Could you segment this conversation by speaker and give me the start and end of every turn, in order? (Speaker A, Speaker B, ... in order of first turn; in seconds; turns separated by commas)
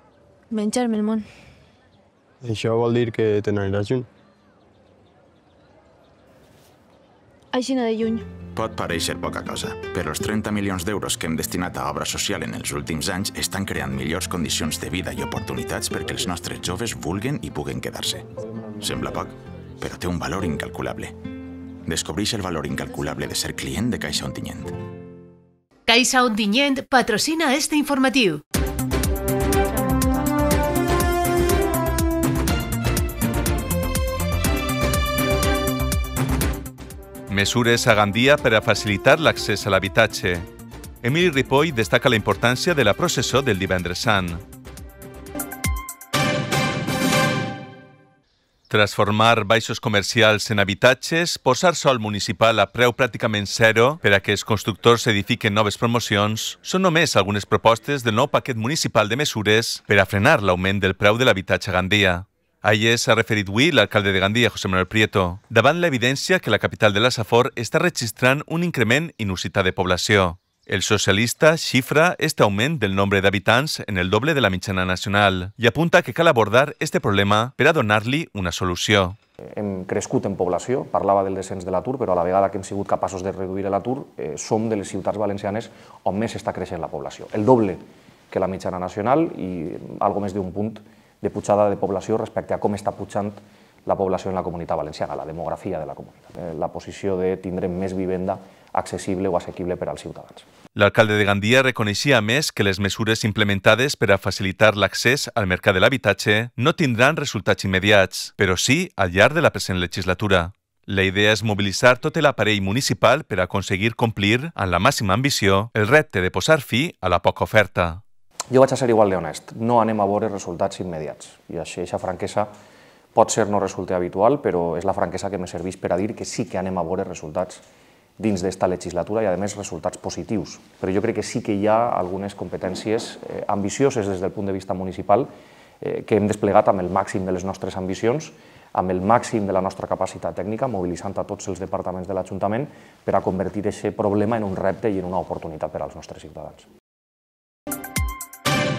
Speaker A: 0.5-1.2, Speaker B: 0.7-1.1, Speaker C: 2.4-4.1, Speaker A: 7.5-8.2, Speaker B: 7.6-8.2, Speaker D: 8.5-18.3, Speaker C: 18.4-18.8, Speaker D: 18.8-21.1, Speaker D: 21.9-24.8, Speaker B: 25.9-27.9, Speaker A: 29.8-30.4, Speaker E: 37.3-40.5, Speaker E: 41.0-44.4, Speaker E: 48.7-79.2, Speaker F: 79.5-100.4, Speaker E: 100.8-118.0, Speaker F: 118.5-122.5, Speaker F: 123.2-127.6, Speaker F: 128.2-135.3, Speaker F: 135.8-146.7